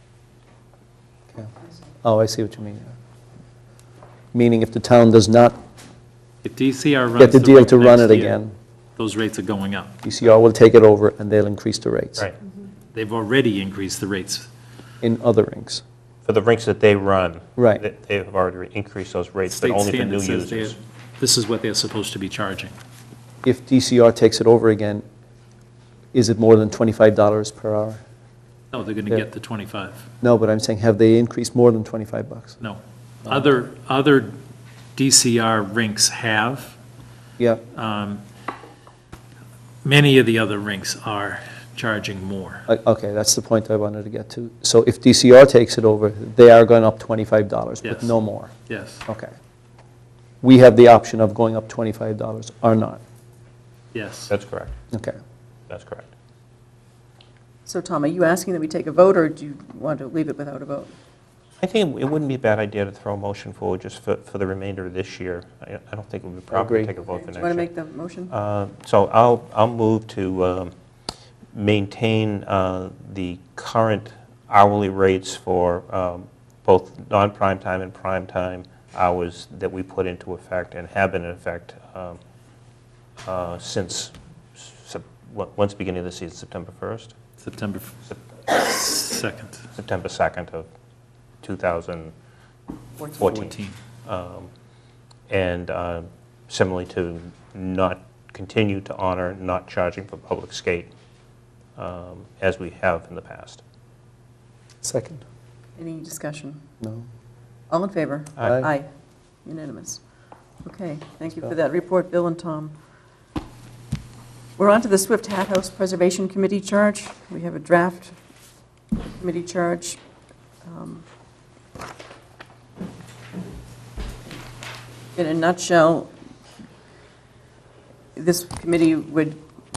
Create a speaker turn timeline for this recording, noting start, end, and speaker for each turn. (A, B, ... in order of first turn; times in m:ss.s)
0:02.0-0:02.9 A
0:04.3-0:05.6 A
0:06.4-0:08.4 B
0:07.2-0:08.5 A
0:09.0-0:10.0 B
0:10.0-0:12.3 A
0:12.9-0:14.5 B
0:15.0-0:15.8 A
0:16.2-0:20.8 C
0:17.6-0:17.8 A
0:19.5-0:22.8 B
0:23.4-0:25.0 A
0:26.1-0:28.0 A
0:28.7-0:30.0 B
0:30.2-0:32.6 A
0:32.6-0:34.4 B
0:35.0-0:36.8 B
0:37.4-0:37.6 A
0:37.7-0:38.2 B
0:39.8-0:42.7 B
0:42.7-0:48.5 A
0:47.8-0:49.0 B
0:50.4-0:53.0 A
0:53.9-0:54.3 B
0:54.3-0:54.7 C
0:54.9-0:55.2 A
0:55.7-0:56.1 C
0:57.7-1:00.9 D
1:01.6-1:07.7 C
1:06.5-1:06.9 A
1:07.1-1:08.3 D
1:08.3-1:10.7 C
1:11.5-1:22.2 C
1:23.2-1:27.1 C
1:27.4-1:29.7 B
1:29.8-1:30.7 C
1:31.4-1:32.1 C
1:33.1-1:34.5 C
1:33.2-1:33.8 B
1:35.3-1:40.9 C
1:41.8-1:43.6 C
1:44.8-1:45.2 A
1:45.8-1:46.6 D
1:46.8-1:47.1 A
1:47.7-1:48.9 D
1:49.4-1:50.0 D
1:50.6-1:52.7 D
1:54.6-1:58.1 D
1:59.2-2:00.0 D
2:00.6-2:01.1 D
2:05.2-2:06.1 D
2:08.2-2:09.4 D